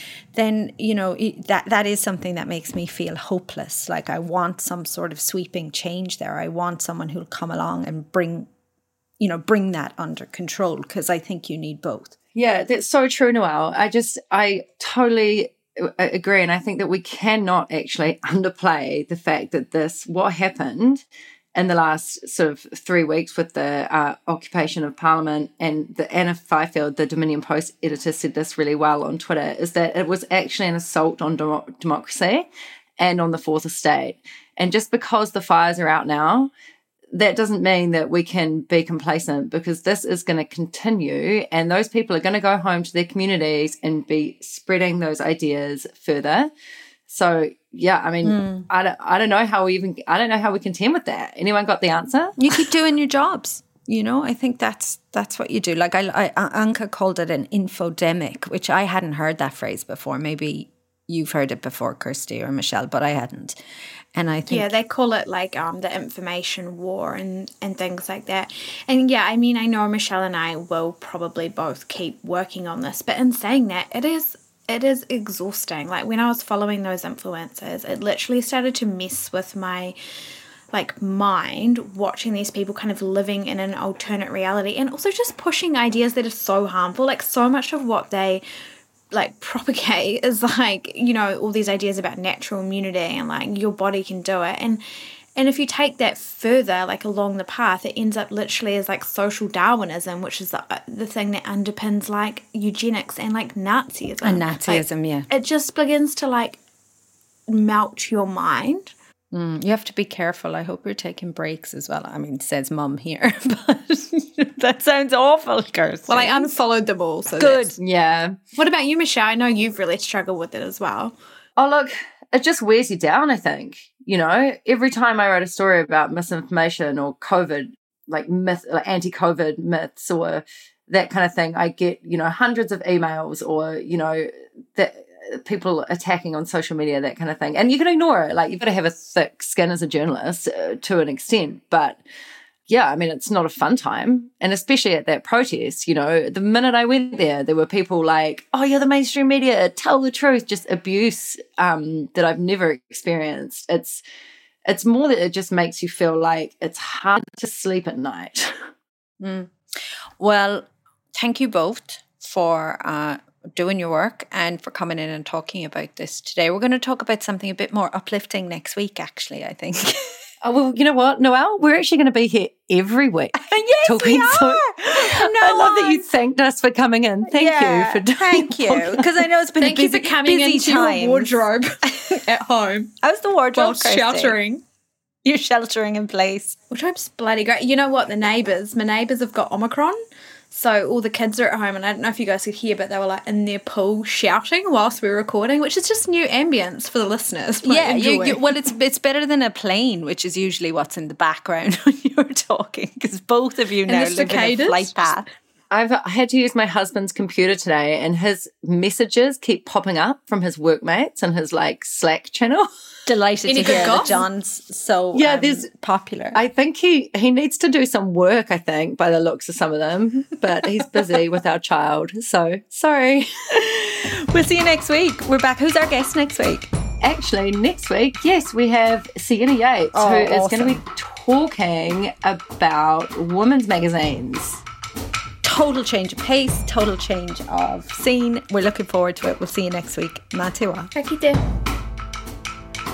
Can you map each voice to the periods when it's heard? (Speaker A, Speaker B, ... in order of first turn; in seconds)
Speaker A: 0.3-8.5, 9.2-12.1, 48.2-48.7, 52.4-63.6, 64.1-64.7, 104.2-105.3, 109.3-116.5, 117.4-117.8, 159.2-159.5, 160.2-170.1, 173.4-176.1, 177.3-181.4, 183.0-184.4, 185.2-186.6, 197.6-205.2, 213.1-216.4, 223.6-226.7, 229.9-230.8, 235.4-240.9
Speaker B: 12.3-21.0, 21.5-32.5, 33.0-36.5, 37.1-46.5, 47.1-52.4, 117.8-118.3, 121.6-142.0, 142.7-154.0, 154.7-158.7, 170.4-179.2, 205.7-212.7, 213.6-213.9, 215.1-215.7, 216.3-223.5, 227.0-234.6
Speaker C: 64.5-79.9, 80.7-88.4, 89.1-94.8, 95.3-106.6, 107.5-108.9, 116.1-117.7, 118.5-121.2, 179.6-182.9, 183.5-184.6, 186.7-190.0, 190.5-198.4, 203.9-205.2, 213.4-214.2, 240.9-241.4